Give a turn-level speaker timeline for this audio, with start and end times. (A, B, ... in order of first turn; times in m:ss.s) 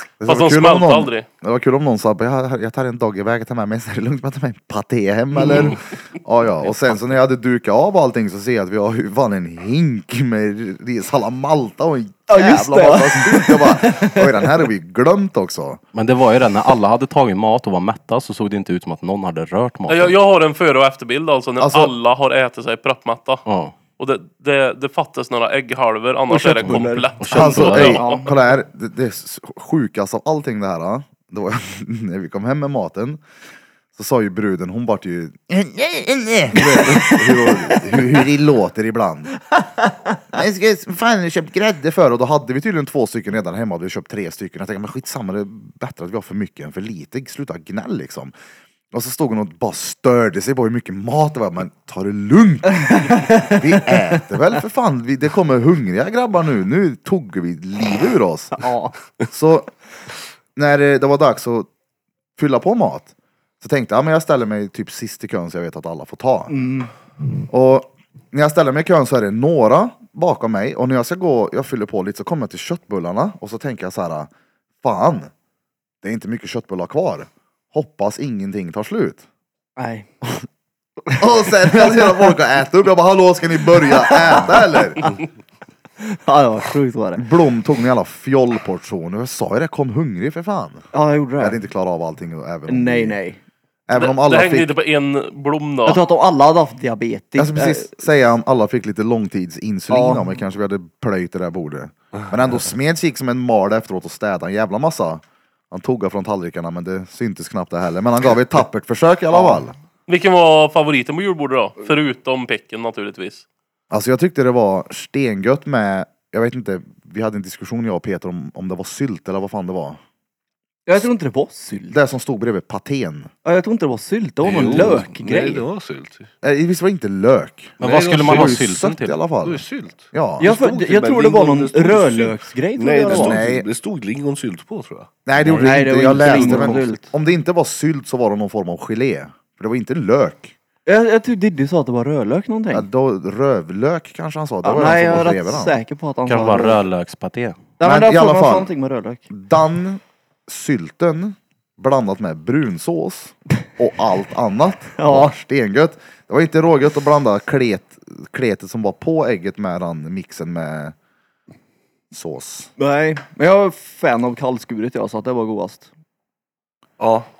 0:00.2-0:15.8 A
0:00.2-0:01.2 B
0:12.3-0:14.3 C
0:15.9-0:20.2 D
0:19.9-0:23.4 B
0:21.6-0:21.9 A
0:23.4-0:23.8 D
0:24.0-0:28.3 B
0:26.3-0:27.1 C
0:26.6-0:28.0 D
0:27.3-0:33.2 A
0:27.7-0:28.3 C
0:33.9-0:39.4 A
0:36.8-0:37.3 C
0:40.3-0:48.3 A
0:48.9-0:58.5 A
0:53.1-0:53.5 C
0:58.6-0:58.9 C
0:59.3-0:59.7 A
1:00.6-1:01.7 A
1:02.4-1:06.5 A
1:06.5-1:06.9 C
1:07.5-1:14.3 A
1:14.8-1:15.3 A
1:16.0-1:19.2 A
1:19.8-1:20.1 C
1:21.2-1:25.2 A
1:24.3-1:25.1 C
1:26.0-1:27.2 C
1:27.2-1:30.8 A
1:30.9-1:31.6 C
1:31.4-1:33.2 A
1:32.7-1:33.4 C
1:33.9-1:34.7 A
1:33.9-1:36.0 B
1:35.8-1:38.0 C
1:37.4-1:49.7 A
1:39.9-1:40.4 C
1:49.3-1:49.6 C
1:50.1-1:53.4 B
1:53.9-2:00.0 A
2:00.8-2:02.0 C
2:01.9-2:03.3 A
2:03.4-2:05.6 C
2:04.4-2:06.3 E
2:06.4-2:10.5 A
2:07.8-2:09.3 D
2:07.8-2:08.7 E
2:09.4-2:15.1 E
2:10.4-2:13.4 C
2:13.1-2:13.6 A
2:15.2-2:20.5 A
2:15.4-2:16.9 D
2:15.5-2:17.1 C
2:20.8-2:22.9 C
2:22.7-2:25.8 A
2:24.6-2:26.8 C
2:26.3-2:27.6 D
2:27.8-2:29.3 C
2:27.8-2:28.7 A
2:29.3-2:40.9 A
2:35.0-2:35.3 C
2:42.1-2:42.7 A
2:42.8-2:45.9 C
2:47.0-2:47.3 E